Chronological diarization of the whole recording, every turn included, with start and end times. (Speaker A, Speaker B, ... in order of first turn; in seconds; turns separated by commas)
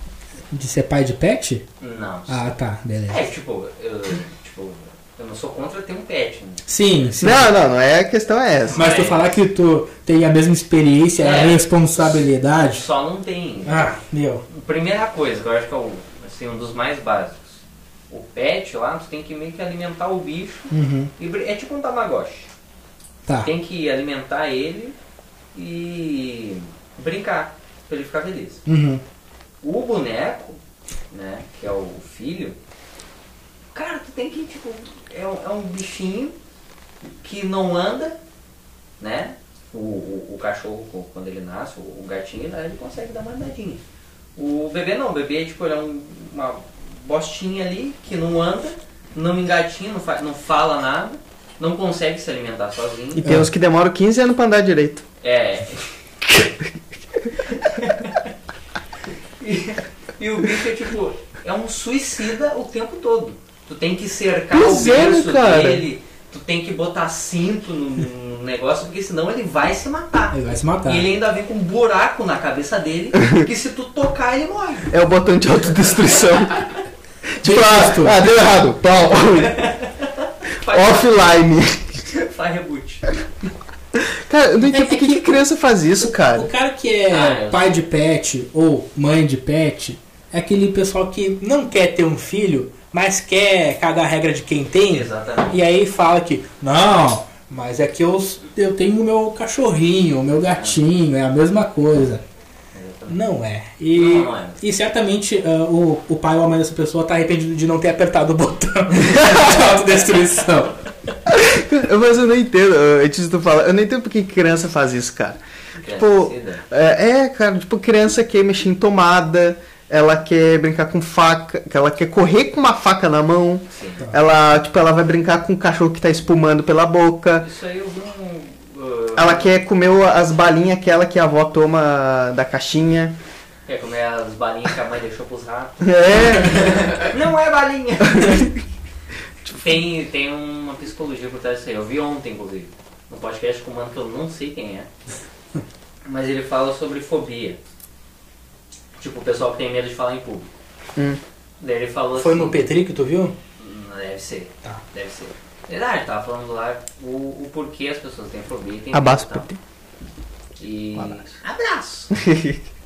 Speaker A: 0.5-1.6, Speaker B: 1.8-2.5, Speaker A: 2.3-3.2, Speaker B: 3.1-7.1, Speaker A: 6.7-7.5, Speaker C: 7.2-8.9, Speaker B: 8.7-9.3, Speaker A: 8.8-12.8, Speaker B: 11.2-14.0, Speaker A: 13.7-14.4, Speaker B: 14.5-22.5, Speaker A: 20.7-21.1, Speaker B: 23.4-25.0, Speaker B: 25.5-28.6, Speaker A: 28.7-29.0, Speaker B: 29.6-30.6, Speaker B: 31.1-32.6, Speaker B: 33.7-36.3, Speaker B: 37.2-38.2, Speaker B: 39.0-43.8, Speaker B: 44.4-53.2, Speaker C: 53.1-55.0, Speaker A: 53.2-53.5, Speaker B: 55.2-56.4, Speaker B: 57.5-58.2, Speaker B: 59.4-74.9, Speaker C: 64.5-65.8, Speaker A: 70.3-71.1, Speaker C: 74.9-76.7, Speaker C: 77.4-79.6, Speaker A: 77.4-78.2, Speaker B: 79.4-81.3, Speaker C: 80.7-82.0, Speaker B: 82.1-83.1, Speaker C: 84.0-86.5, Speaker A: 84.7-85.4, Speaker A: 86.0-102.2, Speaker B: 87.1-87.8, Speaker B: 94.9-95.6, Speaker B: 100.5-100.8, Speaker B: 102.7-103.2, Speaker A: 103.1-110.8, Speaker B: 103.9-104.6, Speaker C: 111.3-127.5, Speaker B: 115.8-116.7, Speaker B: 123.7-124.1, Speaker B: 127.4-129.5, Speaker C: 129.2-133.2, Speaker B: 133.7-138.5, Speaker C: 135.8-136.9, Speaker C: 138.1-138.5, Speaker B: 139.5-144.9, Speaker B: 146.1-147.6, Speaker B: 149.0-150.5, Speaker B: 151.6-152.6, Speaker A: 152.2-153.4, Speaker B: 153.6-159.5, Speaker C: 158.9-159.6, Speaker B: 160.6-162.2, Speaker C: 161.0-161.2, Speaker C: 162.1-162.6